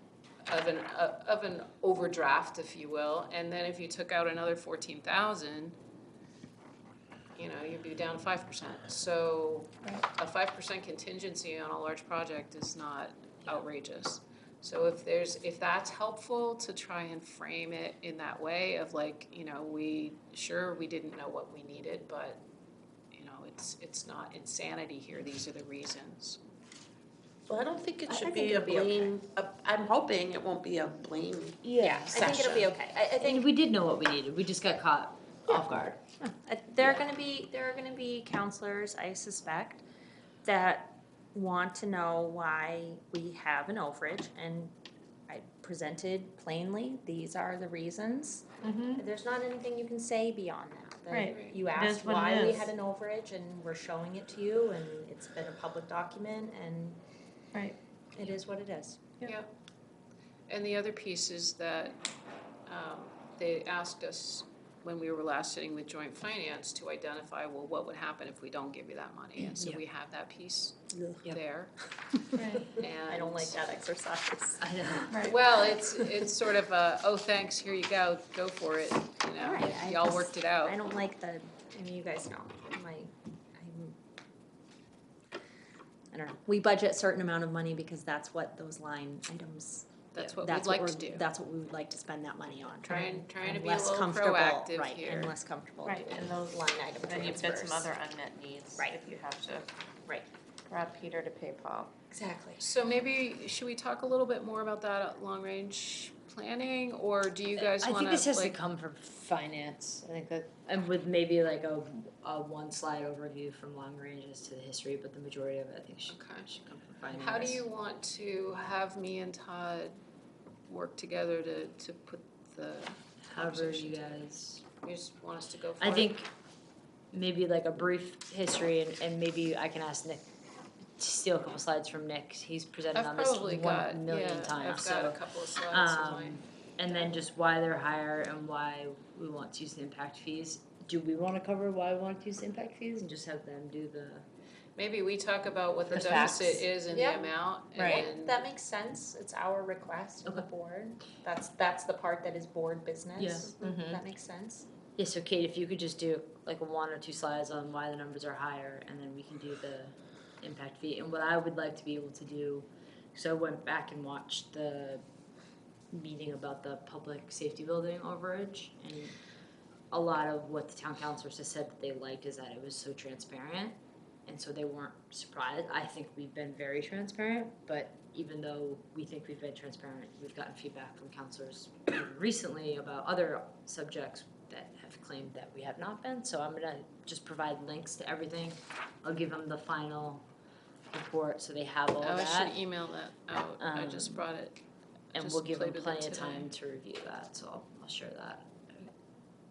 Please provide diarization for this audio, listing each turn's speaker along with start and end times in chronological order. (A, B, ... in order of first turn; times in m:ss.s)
0:00.5-0:05.8 A
0:07.4-0:22.4 A
0:23.1-0:26.4 A
0:27.5-0:32.7 B
0:28.1-0:29.1 C
0:31.6-0:32.2 D
0:31.8-0:33.5 C
0:33.2-0:36.0 D
0:36.2-0:39.8 C
0:36.8-0:37.1 D
0:40.4-0:44.7 C
0:45.3-0:57.0 C
0:48.6-0:49.0 E
0:51.1-0:52.7 E
0:51.2-0:51.6 A
0:58.1-0:59.0 C
0:59.2-0:59.5 A
1:00.5-1:02.0 A
1:02.7-1:11.7 A
1:09.5-1:09.8 D
1:12.4-1:12.7 E
1:12.6-1:13.7 A
1:13.1-1:14.6 C
1:14.6-1:15.3 D
1:15.1-1:15.4 E
1:15.2-1:20.8 A
1:19.4-1:24.0 C
1:26.1-1:37.9 C
1:30.1-1:31.3 A
1:32.8-1:35.4 A
1:32.9-1:33.2 E
1:35.8-1:41.9 E
1:42.1-1:42.6 C
1:42.6-1:48.6 A
1:47.6-1:57.6 D
1:56.1-1:56.5 A
1:57.1-2:00.0 A
2:00.7-2:04.3 A
2:03.2-2:04.6 D
2:04.8-2:06.1 A
2:05.8-2:06.3 D
2:07.1-2:10.2 D
2:11.0-2:24.3 D
2:12.9-2:17.1 A
2:24.8-2:28.4 A
2:25.9-2:26.7 D
2:26.9-2:34.7 C
2:27.8-2:28.0 E
2:33.2-2:33.5 D
2:33.6-2:34.0 E
2:35.0-2:45.0 D
2:45.9-2:49.2 D
2:49.9-3:10.3 D
3:10.9-3:12.6 D
3:12.0-3:14.6 A
3:13.6-3:14.3 D
3:15.1-3:16.5 A
3:15.1-3:18.9 D